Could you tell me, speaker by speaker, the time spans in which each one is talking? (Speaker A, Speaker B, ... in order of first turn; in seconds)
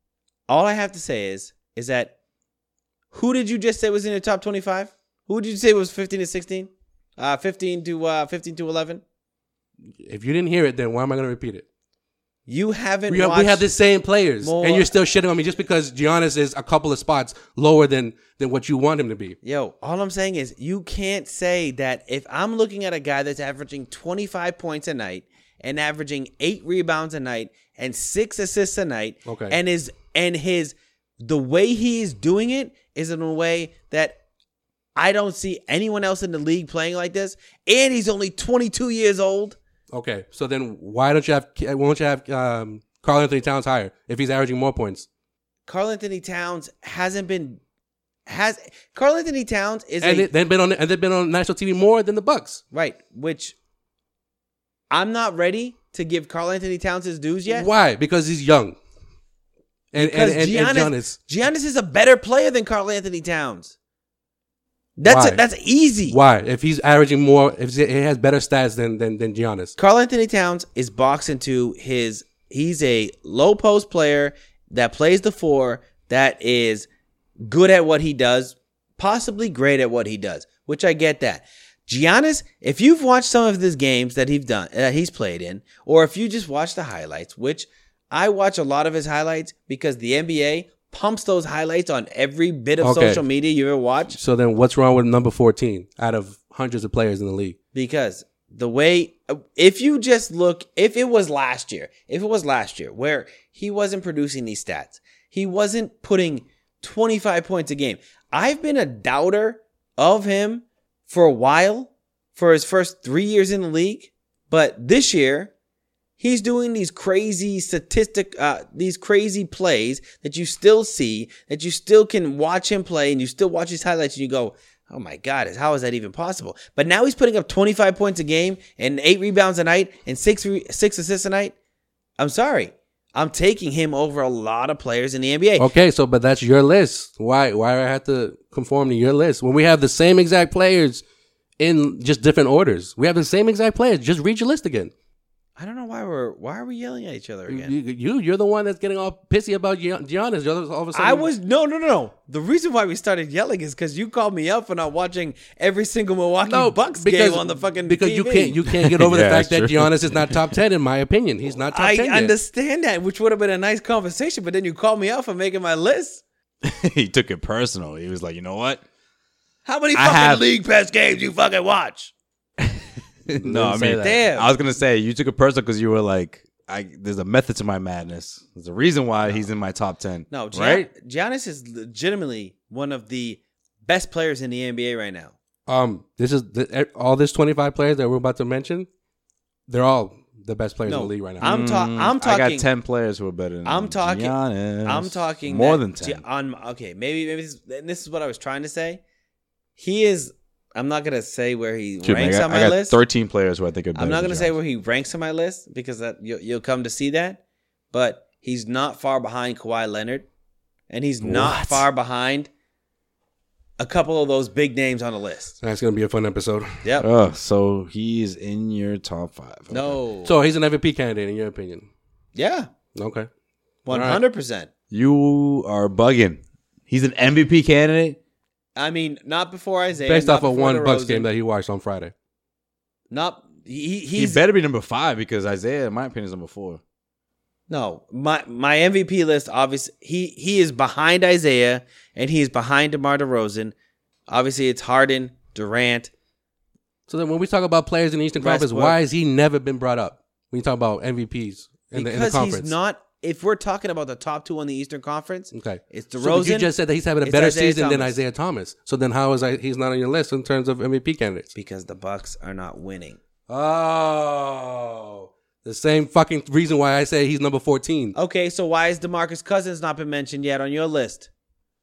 Speaker A: 0.5-2.1, 3.1-9.0, 12.5-13.7, 14.4-14.9, 19.4-34.2, 35.0-39.6, 45.7-47.6, 48.3-50.3, 52.7-53.5, 54.9-57.7, 60.0-63.7, 65.0-66.2, 69.8-76.9, 77.4-94.2, 97.7-115.5, 116.2-131.5, 132.2-135.7, 145.6-147.7, 150.9-158.6, 161.7-166.2, 169.6-172.1, 174.0-174.5, 180.3-185.3, 190.8-192.7, 193.6-199.0, 199.8-203.0, 203.9-207.4, 207.9-210.3, 210.9-212.5, 213.8-215.6, 219.7-220.3, 222.3-222.7, 223.8-224.7, 228.8-231.3, 233.1-234.4, 237.7-243.7, 244.3-246.1, 248.4-249.0, 251.9-258.2, 261.5-263.2, 268.1-271.3
Speaker B: 10.0-11.6, 13.1-19.4, 29.2-29.6, 39.9-45.1, 50.0-52.6, 57.5-58.8, 59.9-61.2, 65.0-65.4, 66.1-69.8, 92.8-93.2, 94.2-97.5, 135.6-141.0, 141.6-144.9, 147.5-151.3, 156.5-162.3, 173.4-174.2, 185.7-188.9, 189.7-191.5, 211.4-211.8, 215.6-216.8, 220.2-221.9, 222.9-223.3, 223.9-224.2, 230.1-232.1, 247.1-252.7, 255.5-261.5, 263.5-268.1
Speaker C: 158.8-160.4, 166.6-168.8, 169.9-170.4, 172.6-180.9, 191.4-196.2, 202.0-204.5, 211.2-211.5, 217.0-220.0, 224.9-228.2, 234.1-236.8